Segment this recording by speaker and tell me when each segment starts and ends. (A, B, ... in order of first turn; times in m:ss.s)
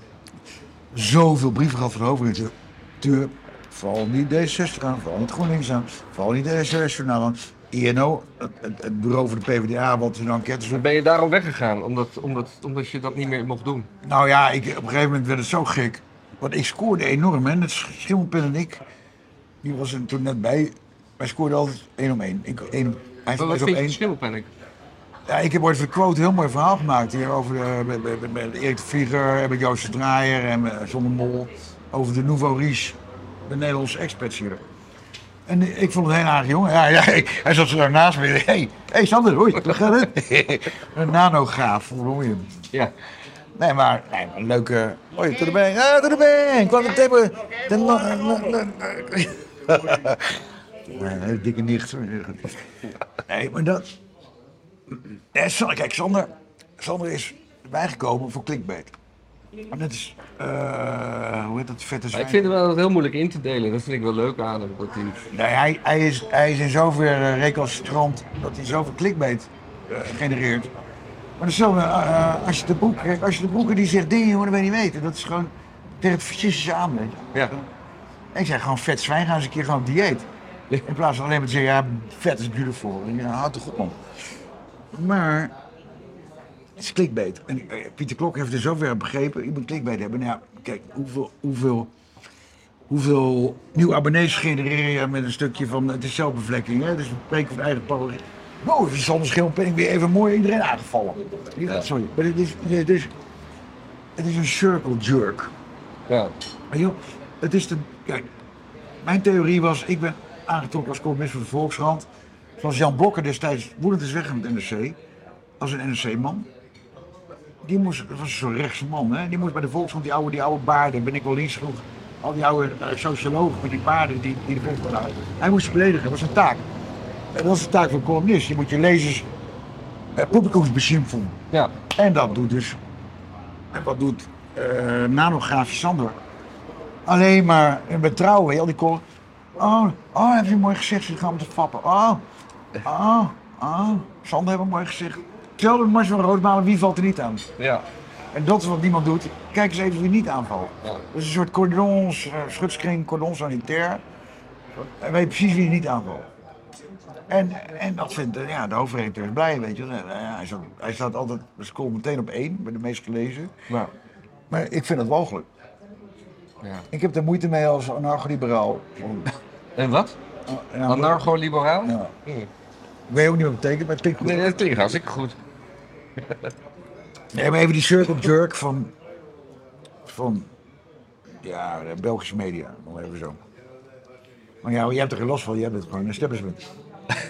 0:00.9-0:10.8 A
0:10.7-0:13.9 B
0:14.0-0:18.8 A
0:19.6-0:24.0 A
0:23.4-0:24.5 B
0:25.3-0:34.6 A
0:35.5-0:42.6 A
0:43.6-0:52.6 A
0:53.2-0:53.9 A
0:55.3-0:58.9 A
0:59.7-1:02.6 A
1:02.1-1:05.2 B
1:05.3-1:10.7 A
1:11.4-1:17.7 A
1:18.3-1:20.3 A
1:20.8-1:24.0 A
1:24.9-1:25.5 A
1:26.8-1:31.9 A
1:32.9-1:43.1 A
1:44.2-1:45.5 A
1:46.1-1:46.3 B
1:46.7-1:48.3 A
1:49.0-1:52.1 A
1:52.6-1:55.0 A
1:55.6-1:56.5 A
1:57.6-2:06.6 A
2:07.3-2:09.3 A
2:10.2-2:11.4 A
2:11.9-2:12.8 A
2:13.7-2:16.2 A
2:17.0-2:19.0 A
2:19.6-2:22.2 A
2:22.8-2:27.5 A
2:27.6-2:27.8 B
2:28.3-2:34.0 A
2:34.8-2:36.3 A
2:37.3-2:43.5 A
2:44.5-2:45.5 A
2:46.9-2:49.3 A
2:49.8-2:50.2 B
2:50.5-2:52.1 A
2:50.9-2:52.5 B
2:53.1-2:54.7 A
2:54.2-2:55.4 B
2:57.3-2:58.9 A
3:00.0-3:00.5 A
3:01.4-3:03.4 A
3:04.6-3:06.7 A